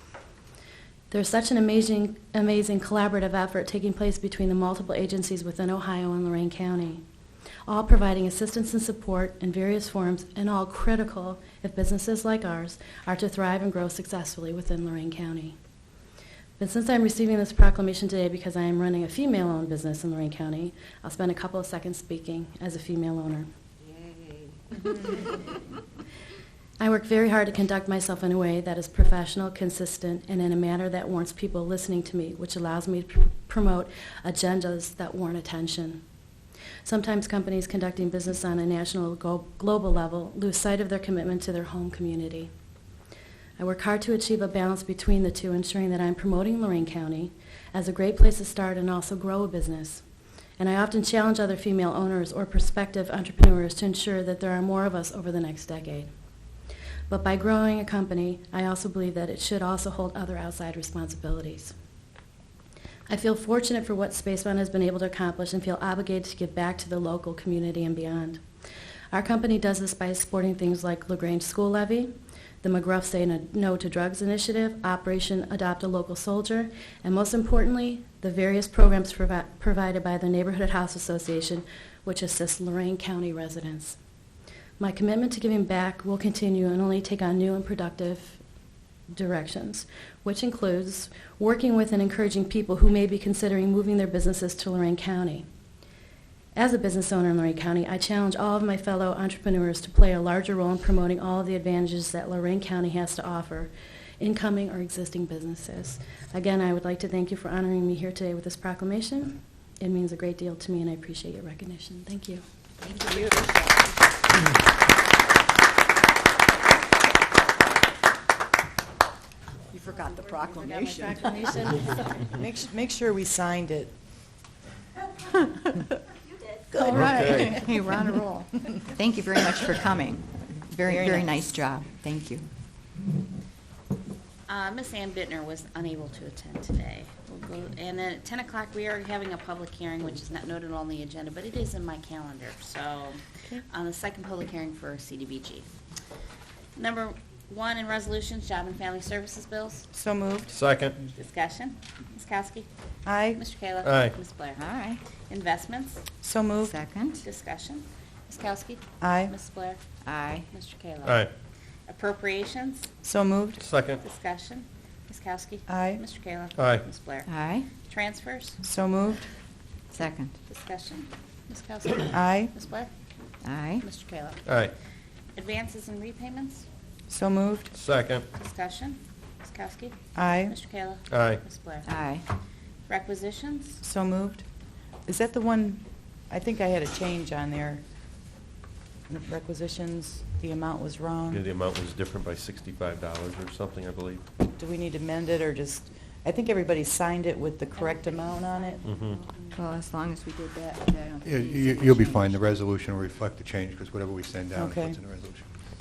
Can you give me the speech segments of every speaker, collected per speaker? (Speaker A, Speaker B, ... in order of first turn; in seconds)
Speaker A: 1.1-7.0, 7.7-15.6, 16.6-23.5, 26.8-36.0, 36.8-42.5, 43.6-50.0, 50.6-56.1, 57.1-61.7, 63.1-68.4, 69.1-84.0, 84.8-88.4, 89.1-95.4, 96.5-112.4, 121.0-121.9
Speaker B: 113.0-113.7, 134.5-145.7, 146.8-149.8, 151.2-152.7, 153.3-154.7, 155.2-156.0, 157.2-159.8, 160.5-161.2, 161.9-162.9, 164.0-168.6, 170.5-172.9, 173.8-174.4, 175.3-176.7, 178.3-181.9, 182.9-183.8, 197.8-199.5
Speaker C: 119.8-120.5, 126.7-132.5, 154.6-155.0, 156.6-157.2, 160.0-160.5, 167.2-167.7, 169.9-170.3, 173.4-173.8, 181.8-182.2, 199.5-202.3
Speaker D: 122.3-123.9, 130.8-131.6, 149.9-150.5, 153.1-153.4, 156.2-156.8, 159.0-159.3, 163.0-163.6, 165.7-166.0, 168.6-169.2, 172.1-172.5, 177.1-177.7, 180.1-180.6, 183.8-184.4, 185.1-187.8, 189.1-191.4, 194.5-198.8, 204.6-204.9
Speaker E: 126.8-127.6, 150.5-151.0, 153.8-154.1, 161.0-161.3, 163.6-164.0, 166.6-166.8, 174.4-174.7, 177.7-178.2, 181.1-181.4, 191.3-194.2, 198.8-199.2
Speaker F: 201.2-205.5